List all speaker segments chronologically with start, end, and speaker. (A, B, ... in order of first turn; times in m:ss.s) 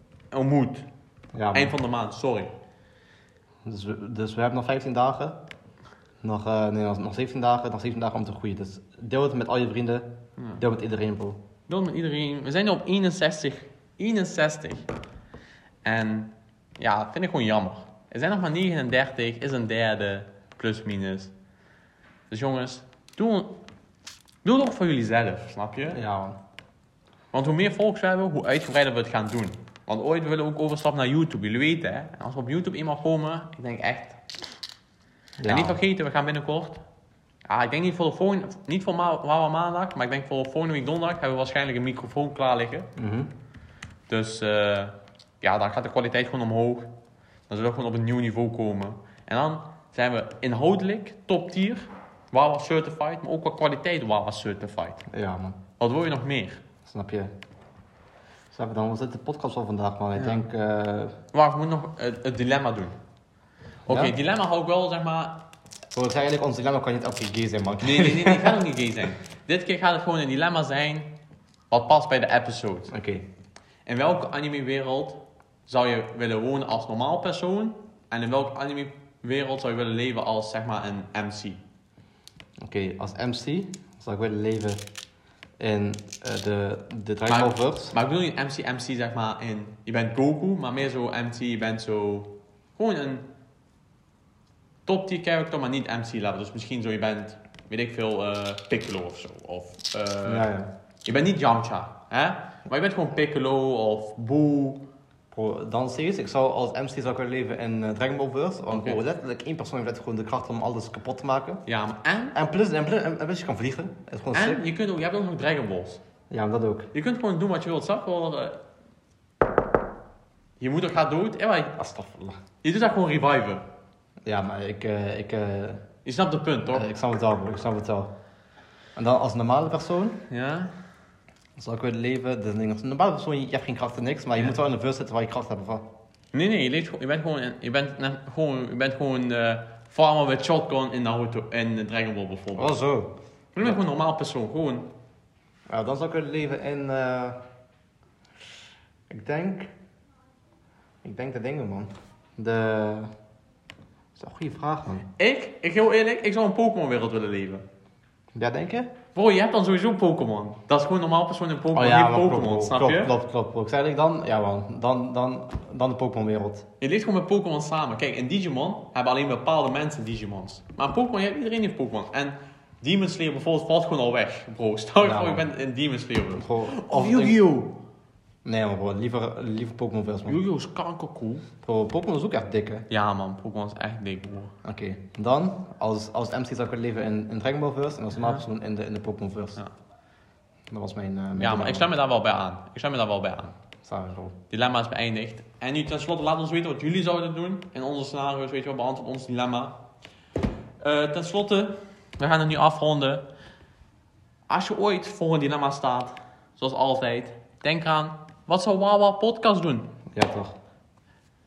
0:00.3-0:00.9 A
0:01.3-0:01.7 B
0:01.5-0:02.5 A
0:03.6-0:05.4 B
0:06.2-0:11.4 B
0:11.7-0:14.9 A
0:15.8-0:21.3 A
0:22.3-0:23.5 A
0:24.4-0:26.0 A
0:25.9-0:26.4 B
0:27.3-0:34.4 A
0:35.4-0:35.8 B
0:35.4-0:36.8 A
0:37.4-0:42.9 A
0:43.0-0:43.3 B
0:44.1-0:46.9 A
0:47.5-0:55.0 A
0:55.1-0:55.6 B
0:55.8-0:56.6 A
0:56.8-0:57.3 B
0:58.5-1:01.2 B
1:00.2-1:00.4 A
1:01.3-1:03.0 A
1:03.8-1:05.4 A
1:03.9-1:04.1 B
1:05.9-1:08.7 B
1:07.8-1:11.1 A
1:11.7-1:12.9 A
1:12.9-1:13.2 B
1:13.8-1:21.6 A
1:22.6-1:24.8 B
1:25.6-1:28.0 B
1:27.3-1:33.3 A
1:34.8-1:40.5 A
1:40.2-1:40.7 B
1:41.0-1:44.9 A
1:45.3-1:51.6 B
1:48.7-1:49.0 A
1:51.7-1:52.4 A
1:52.3-1:54.6 B
1:54.3-1:56.0 A
1:56.3-1:56.9 B
1:56.9-1:58.6 A
2:00.6-2:01.8 A
2:01.8-2:02.4 B
2:02.6-2:03.6 A
2:04.2-2:05.8 B
2:06.0-2:06.9 A
2:06.7-2:08.1 B
2:09.0-2:10.2 B
2:10.3-2:10.7 A
2:11.6-2:15.8 B
2:16.3-2:22.7 A
2:22.6-2:23.8 B
2:23.5-2:24.9 A
2:25.7-2:27.4 B
2:29.1-2:29.7 B
2:31.0-2:33.1 B
2:34.2-2:35.1 B
2:35.2-2:37.6 A
2:38.3-2:38.9 B
2:39.1-2:43.1 A
2:41.7-2:46.7 B
2:46.8-2:57.8 A
2:55.0-2:55.5 B
2:56.4-2:57.5 B
2:58.4-3:00.4 B
3:00.2-3:01.5 A
3:01.6-3:02.9 B
3:02.9-3:04.5 A
3:04.6-3:09.6 B
3:08.2-3:08.4 A
3:10.7-3:11.9 B
3:11.4-3:13.5 A
3:13.8-3:14.3 B
3:14.5-3:19.8 A
3:20.8-3:23.3 A
3:24.5-3:29.9 A
3:30.1-3:30.5 B